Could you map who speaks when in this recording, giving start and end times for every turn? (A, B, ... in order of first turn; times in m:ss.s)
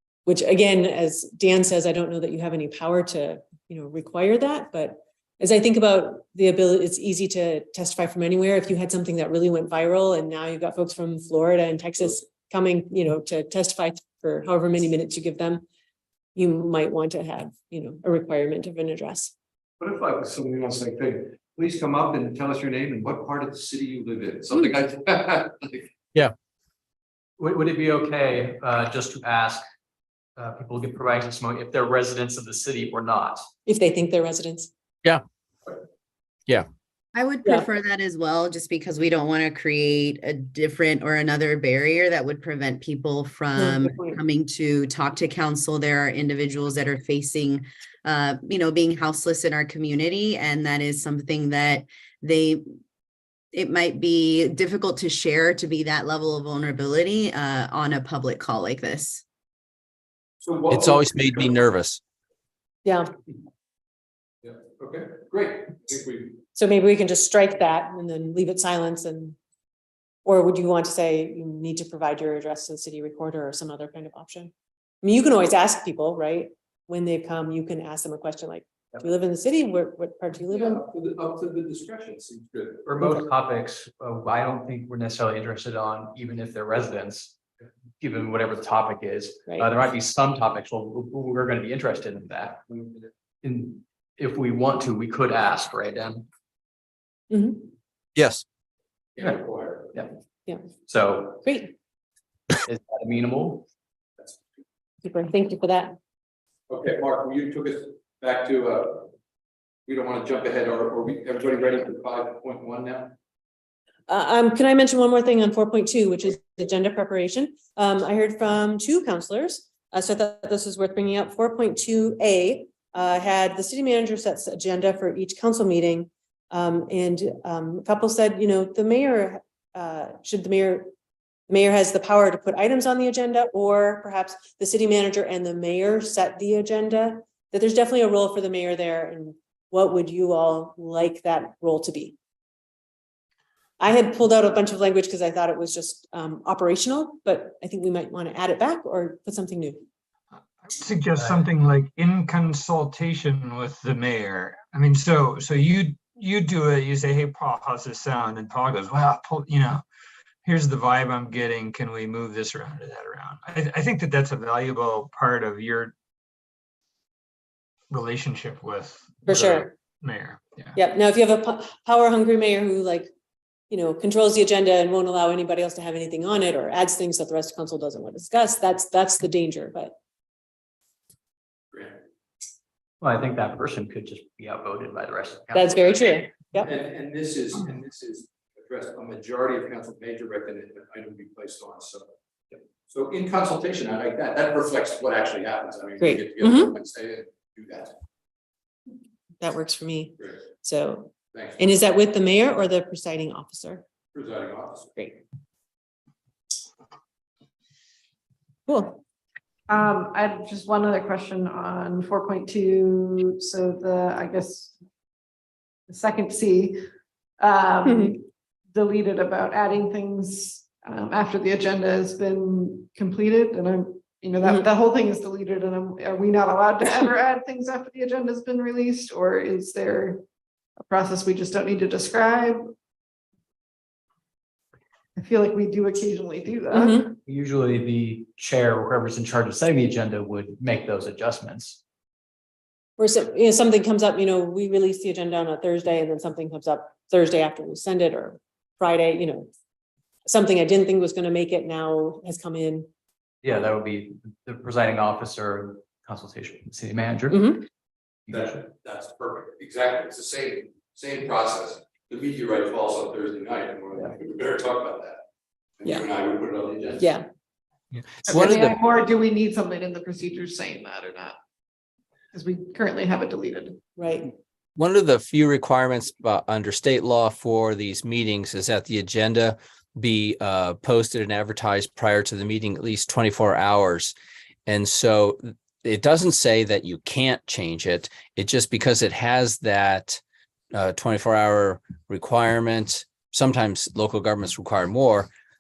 0:00.3-0:15.6 A
0:16.4-0:19.3 A
0:19.8-0:25.9 B
0:27.4-0:29.6 C
0:30.4-0:33.4 C
0:33.7-0:34.7 A
0:37.2-0:52.6 D
0:43.6-0:44.2 A
0:53.5-0:59.2 D
1:00.4-1:01.6 B
1:00.7-1:02.0 E
1:02.8-1:03.1 A
1:04.4-1:06.4 B
1:06.6-1:09.4 A
1:10.2-1:14.5 A
1:15.0-1:20.8 A
1:20.5-1:22.9 B
1:22.9-1:27.4 C
1:28.0-1:32.6 C
1:32.7-1:33.1 B
1:33.4-1:36.3 C
1:37.3-1:37.7 A
1:38.2-1:38.4 E
1:39.2-1:40.0 B
1:40.9-1:41.4 C
1:41.4-1:41.7 A
1:42.7-1:43.7 C
1:45.0-1:46.0 A
1:46.7-1:49.1 B
1:49.9-1:53.2 B
1:54.1-2:10.9 A
2:11.5-2:22.2 A
2:23.8-2:29.8 A
2:30.6-2:39.8 F
2:40.4-2:45.9 F
2:47.9-2:50.7 F
2:49.3-2:49.7 A
2:50.8-2:53.1 A
2:53.7-2:59.9 A
3:03.0-3:06.2 C
3:05.5-3:06.7 A
3:06.6-3:12.1 B
3:12.9-3:18.0 B
3:16.0-3:16.7 A
3:19.4-3:23.8 A
3:21.3-3:21.6 B
3:24.1-3:24.9 B
3:28.7-3:29.0 A
3:29.7-3:34.8 G
3:35.9-3:36.8 G
3:37.4-3:50.2 G
3:37.8-3:38.2 A
3:50.8-3:52.6 G
3:55.2-3:57.1 G
3:56.7-3:57.1 A
3:57.3-4:01.8 C
4:03.0-4:09.5 A
4:10.2-4:12.9 A
4:13.4-4:17.5 C
4:17.3-4:17.7 A
4:18.3-4:25.2 B
4:25.8-4:27.1 B
4:27.0-4:27.3 A
4:28.3-4:31.4 G
4:28.3-4:28.7 E
4:32.3-4:33.8 G
4:34.0-4:34.3 A
4:34.8-4:44.1 E
4:44.7-4:55.3 E